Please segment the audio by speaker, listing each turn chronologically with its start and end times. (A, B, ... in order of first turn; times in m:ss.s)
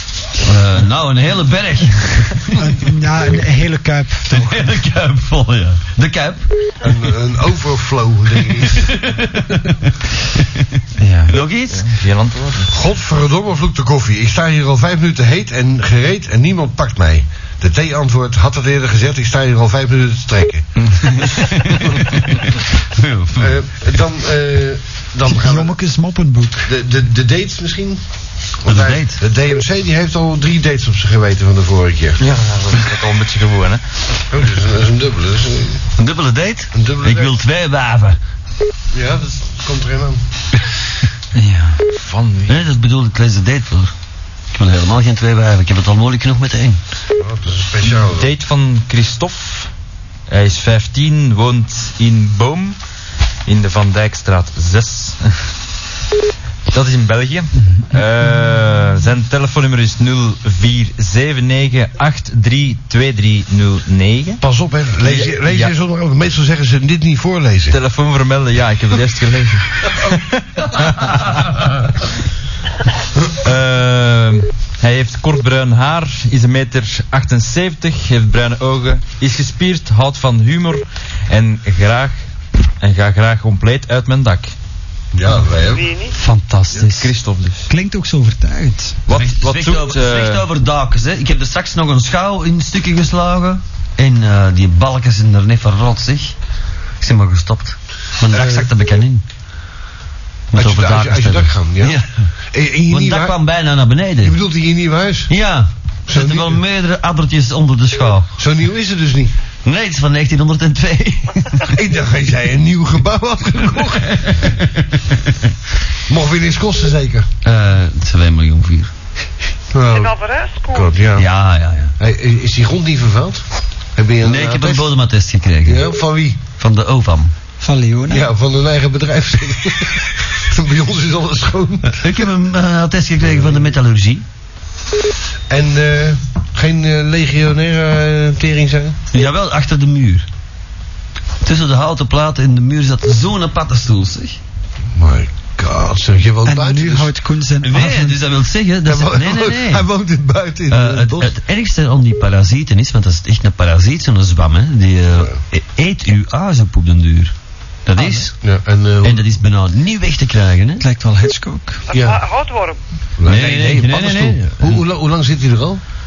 0:00.4-0:02.8 A
0:02.6-0:04.7 B
0:04.3-0:06.5 A
0:06.8-0:08.9 C
0:08.6-0:11.9 A
0:11.0-0:11.4 B
0:11.7-0:12.7 D
0:12.7-0:21.2 C
0:20.8-0:23.6 A
0:23.4-0:25.8 C
0:25.3-0:26.7 B
0:26.6-0:28.0 C
0:28.6-0:32.2 C
0:28.6-0:29.2 A
0:32.2-0:33.8 D
0:34.3-0:35.8 C
0:36.0-0:38.2 A
0:36.7-0:37.4 C
0:38.9-0:40.2 C
0:41.3-0:41.8 B
0:41.9-0:42.6 D
0:42.5-0:43.9 A
0:44.5-0:46.8 A
0:47.2-0:48.3 C
0:48.0-0:49.7 D
0:50.3-0:52.8 D
0:53.4-0:55.2 D
0:56.7-1:04.4 D
1:04.4-1:07.8 C
1:05.0-1:05.7 D
1:07.7-1:11.7 D
1:13.4-1:22.2 D
1:22.8-1:24.5 D
1:25.1-1:25.9 C
1:25.6-1:26.2 E
1:26.1-1:27.1 B
1:26.8-1:27.7 D
1:27.7-1:29.0 B
1:29.0-1:30.5 D
1:29.1-1:36.3 A
1:37.0-1:39.2 A
1:38.3-1:38.7 C
1:40.5-1:42.3 A
1:40.5-1:43.4 C
1:42.9-1:44.4 A
1:44.2-1:45.3 C
1:45.3-1:48.3 A
1:46.1-1:46.6 C
1:48.4-1:49.3 C
1:49.6-1:51.7 A
1:51.7-1:54.5 C
1:54.2-1:55.1 A
1:56.1-1:57.3 C
1:57.4-1:58.9 A
1:59.7-2:00.1 C
1:59.9-2:01.0 E
2:00.7-2:01.3 C
2:01.1-2:01.9 A
2:02.0-2:04.9 C
2:04.2-2:05.8 A
2:05.6-2:06.4 C
2:06.6-2:07.3 A
2:07.6-2:08.3 B
2:08.1-2:12.2 C
2:11.9-2:14.2 A
2:13.2-2:13.6 C
2:15.5-2:19.0 C
2:19.1-2:20.3 A
2:21.4-2:24.4 A
2:25.0-2:27.1 C
2:26.4-2:28.2 B
2:27.6-2:29.9 A
2:28.8-2:31.4 C
2:30.7-2:37.3 A
2:37.8-2:38.3 A
2:38.4-2:39.3 C
2:39.0-2:40.8 A
2:40.8-2:41.8 B
2:41.9-2:42.8 E
2:41.9-2:42.2 C
2:43.2-2:45.8 C
2:43.2-2:44.8 A